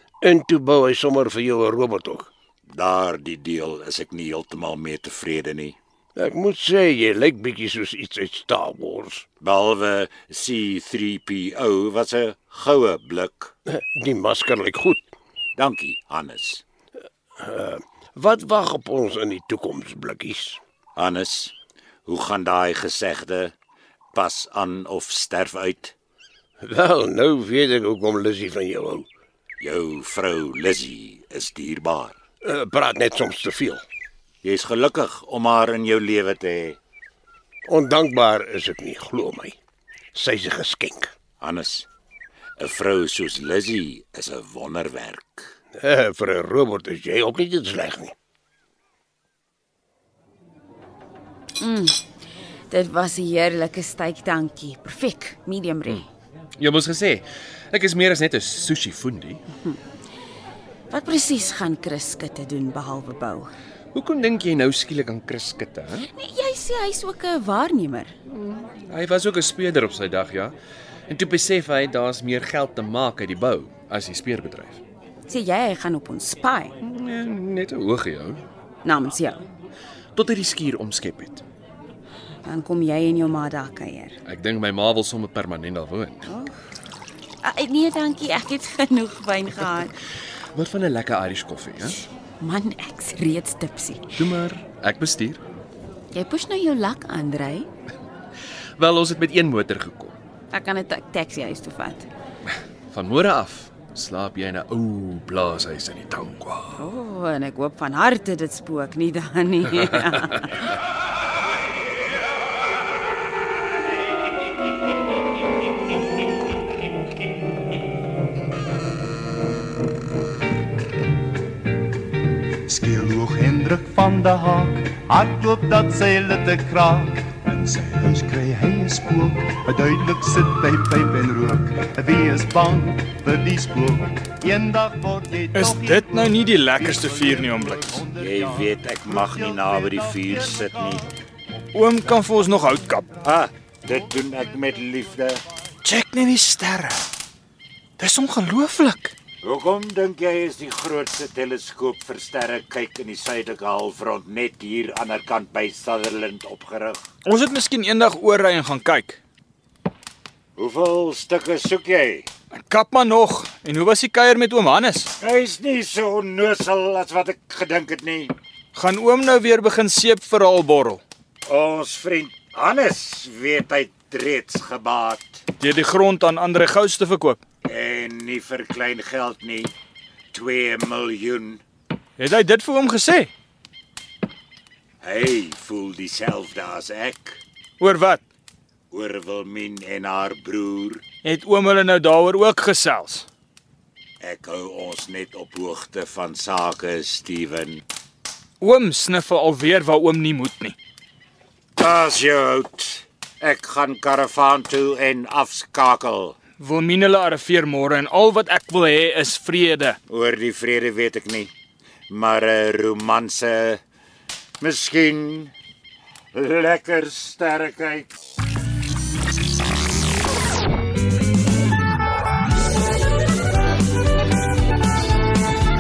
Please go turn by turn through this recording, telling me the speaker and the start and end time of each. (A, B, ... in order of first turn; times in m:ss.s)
0:00.2-0:02.3 A
0:02.7-0:05.8 B
0:06.2-0:09.2 A
0:09.4-0:13.5 B
0:13.7-0:15.0 A
0:15.6-0:16.6 B
0:17.4-0:20.6 A
0:21.0-0:21.5 B
0:22.1-0:23.5 B
0:24.1-0:25.9 B
0:26.6-0:29.1 A
0:29.6-0:32.2 B
0:32.4-0:33.8 A
0:34.4-0:36.8 B
0:37.7-0:39.6 A
0:40.1-0:41.1 A
0:41.4-0:41.9 B
0:42.6-0:45.5 B
0:45.8-0:48.1 A
0:51.6-0:52.0 C
0:52.7-0:56.1 C
0:56.6-0:59.4 D
1:00.9-1:03.5 C
1:03.9-1:06.1 D
1:06.1-1:08.2 C
1:08.3-1:10.6 D
1:11.1-1:14.8 D
1:15.3-1:16.8 C
1:16.8-1:18.4 D
1:18.8-1:19.4 C
1:20.2-1:21.4 D
1:22.4-1:24.2 C
1:24.2-1:26.3 D
1:26.3-1:26.5 C
1:27.4-1:29.9 C
1:30.5-1:32.0 D
1:32.4-1:34.2 C
1:34.2-1:35.4 D
1:36.1-1:37.7 C
1:38.8-1:40.2 D
1:40.5-1:42.1 C
1:42.9-1:46.8 D
1:46.8-1:50.7 C
2:02.7-2:20.8 E
2:15.5-2:18.1 F
2:18.2-2:21.1 B
2:21.7-2:23.1 F
2:23.2-2:25.4 B
2:25.8-2:27.0 F
2:28.0-2:29.1 F
2:29.4-2:37.0 B
2:37.2-2:39.2 F
2:40.6-2:42.3 B
2:42.5-2:45.1 F
2:45.2-2:48.4 B
2:48.7-2:51.0 F
2:51.5-2:55.4 B
2:55.6-2:57.4 F
2:57.6-2:59.7 B
3:00.3-3:01.6 B
3:02.2-3:03.3 F
3:05.0-3:07.4 B
3:07.8-3:08.2 F
3:08.9-3:11.0 B
3:11.2-3:13.3 F
3:14.2-3:17.8 B
3:18.6-3:20.8 F
3:21.8-3:26.4 B
3:26.6-3:30.0 F
3:30.1-3:31.5 B
3:32.1-3:33.8 B
3:34.6-3:35.5 B
3:36.3-3:38.1 B